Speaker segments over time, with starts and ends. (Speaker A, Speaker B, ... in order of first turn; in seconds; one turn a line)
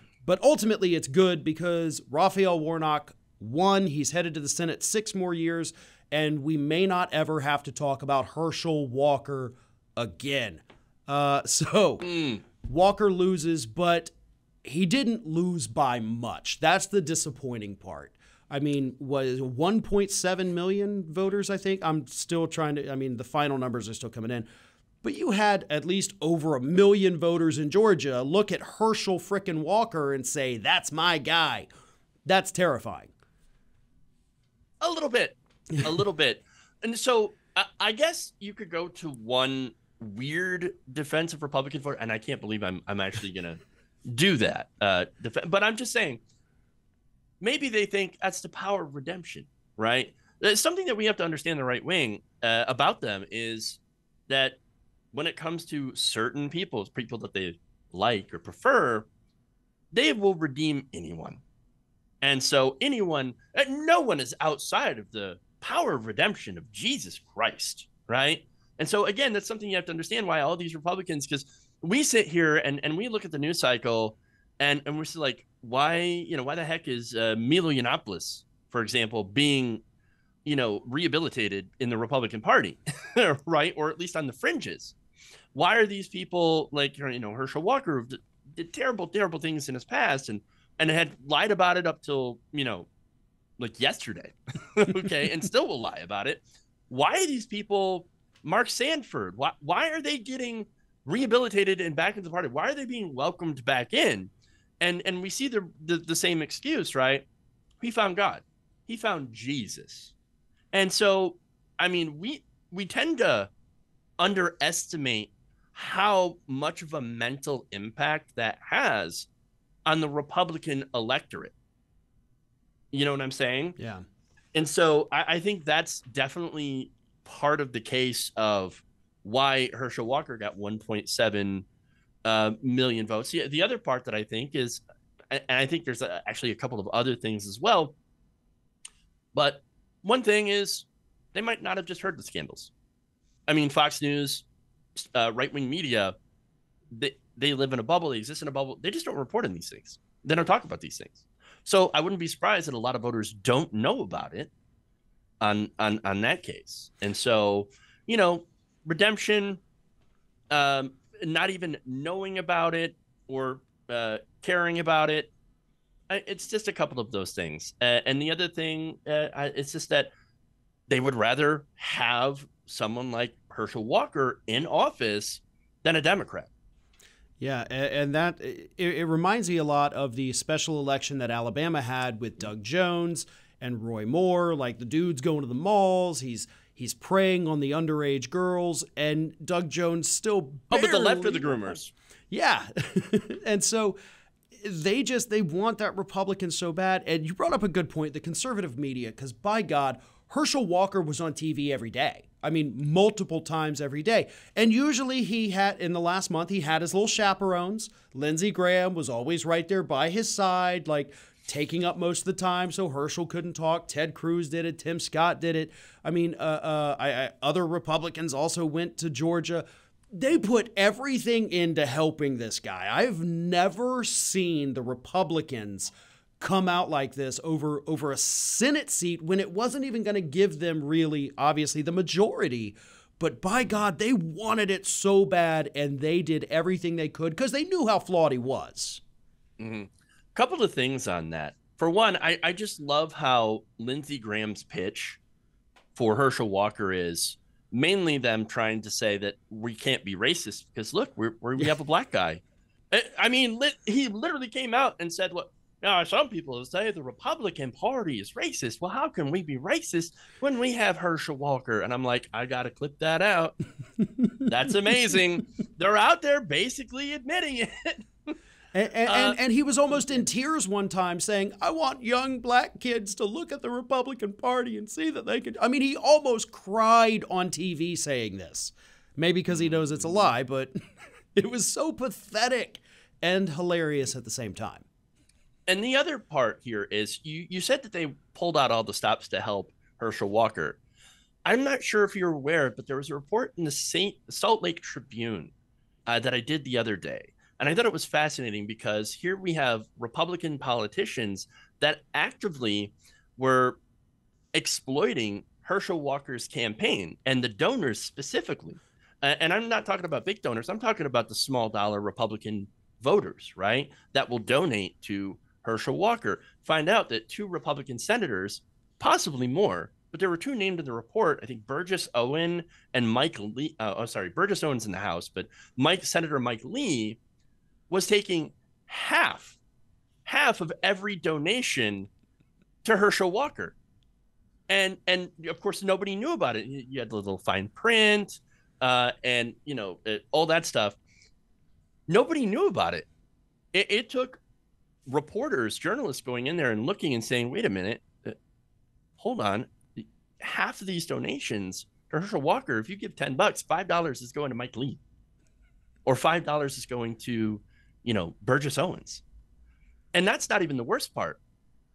Speaker A: 0.2-14.1
Speaker B: 12.0-12.4
Speaker A: 14.6-24.5
Speaker A: 25.0-31.7
Speaker A: 32.2-33.1
Speaker B: 34.8-46.2
Speaker B: 47.4-54.6
Speaker B: 55.1-59.1
Speaker B: 59.9-61.4
Speaker B: 62.2-79.8
Speaker B: 80.4-85.0
Speaker B: 85.5-92.9
Speaker B: 93.6-107.2
Speaker B: 107.8-110.1
Speaker B: 110.7-113.5
Speaker B: 114.2-119.3
Speaker B: 119.8-121.5
Speaker B: 122.9-123.8
Speaker A: 123.8-124.0
Speaker B: 124.5-131.7
Speaker B: 132.2-137.9
Speaker B: 139.3-142.7
Speaker B: 143.5-144.4
Speaker B: 144.9-146.1
Speaker B: 146.9-154.5
Speaker B: 155.4-159.6
Speaker B: 160.5-165.3
Speaker B: 166.1-170.1
Speaker B: 170.9-176.5
Speaker A: 177.4-191.8
Speaker B: 190.7-191.9
Speaker A: 192.3-194.0
Speaker A: 194.6-239.0
Speaker B: 239.6-245.2
Speaker B: 245.9-263.6
Speaker A: 264.0-264.4
Speaker B: 264.5-268.3
Speaker A: 268.7-280.7
Speaker B: 269.1-269.4
Speaker B: 269.9-270.2
Speaker B: 279.5-280.3
Speaker A: 281.4-284.9
Speaker B: 285.7-290.8
Speaker B: 291.4-295.5
Speaker B: 296.1-303.8
Speaker B: 304.5-327.2
Speaker B: 327.9-329.6
Speaker B: 330.2-332.1
Speaker B: 332.8-333.8
Speaker B: 334.7-341.0
Speaker B: 342.1-343.1
Speaker B: 343.7-344.4
Speaker B: 345.1-348.4
Speaker B: 349.2-355.0
Speaker B: 356.0-359.2
Speaker B: 360.1-361.4